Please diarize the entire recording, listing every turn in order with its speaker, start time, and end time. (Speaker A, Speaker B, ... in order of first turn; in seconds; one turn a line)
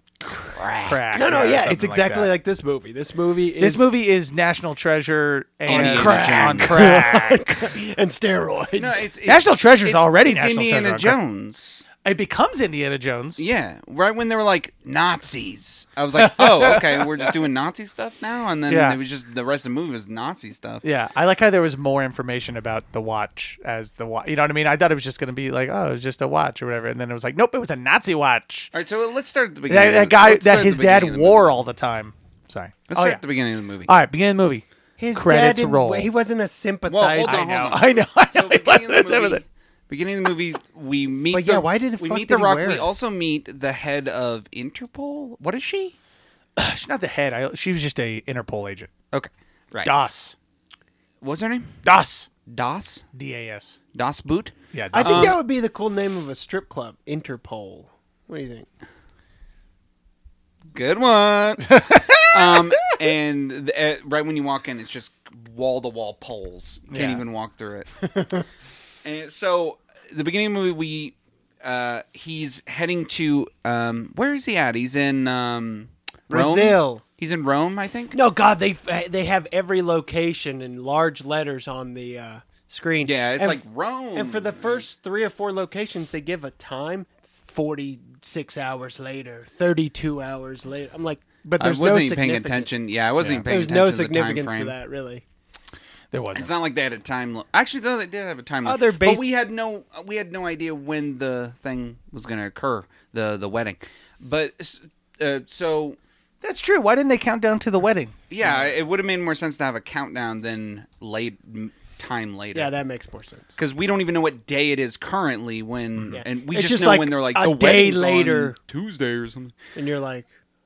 Speaker A: 0.2-2.3
Speaker B: 0.5-1.2
Speaker C: 1.1-3.9
Speaker A: 3.6-7.4
Speaker B: 5.7-7.0
Speaker C: 5.7-9.1
Speaker B: 8.8-11.8
Speaker A: 9.2-11.2
Speaker A: 12.0-13.4
Speaker B: 13.4-20.8
Speaker A: 16.2-17.3
Speaker A: 18.7-19.0
Speaker A: 20.8-28.7
Speaker B: 28.7-31.6
Speaker A: 29.7-33.2
Speaker B: 32.9-33.9
Speaker A: 33.9-36.1
Speaker C: 35.0-37.4
Speaker B: 36.9-46.0
Speaker A: 37.0-39.4
Speaker C: 41.3-42.9
Speaker A: 46.6-48.9
Speaker B: 49.1-49.9
Speaker A: 49.8-50.3
Speaker B: 51.2-51.8
Speaker A: 51.8-52.3
Speaker B: 52.5-53.0
Speaker A: 53.1-53.8
Speaker B: 53.9-55.4
Speaker A: 54.7-55.4
Speaker C: 54.9-58.7
Speaker B: 60.7-67.9
Speaker A: 61.7-62.9
Speaker A: 66.9-67.2
Speaker C: 68.0-68.4
Speaker B: 69.0-78.2
Speaker C: 76.3-77.0
Speaker C: 78.1-83.6
Speaker B: 83.0-84.8
Speaker C: 84.1-92.7
Speaker B: 91.6-94.7
Speaker C: 93.5-95.2
Speaker A: 96.1-96.5
Speaker B: 96.3-106.0
Speaker C: 98.6-99.2
Speaker A: 106.4-108.1
Speaker B: 108.3-112.7
Speaker C: 108.4-108.7
Speaker C: 112.5-113.5
Speaker B: 113.6-119.5
Speaker C: 116.1-118.5
Speaker C: 119.7-120.3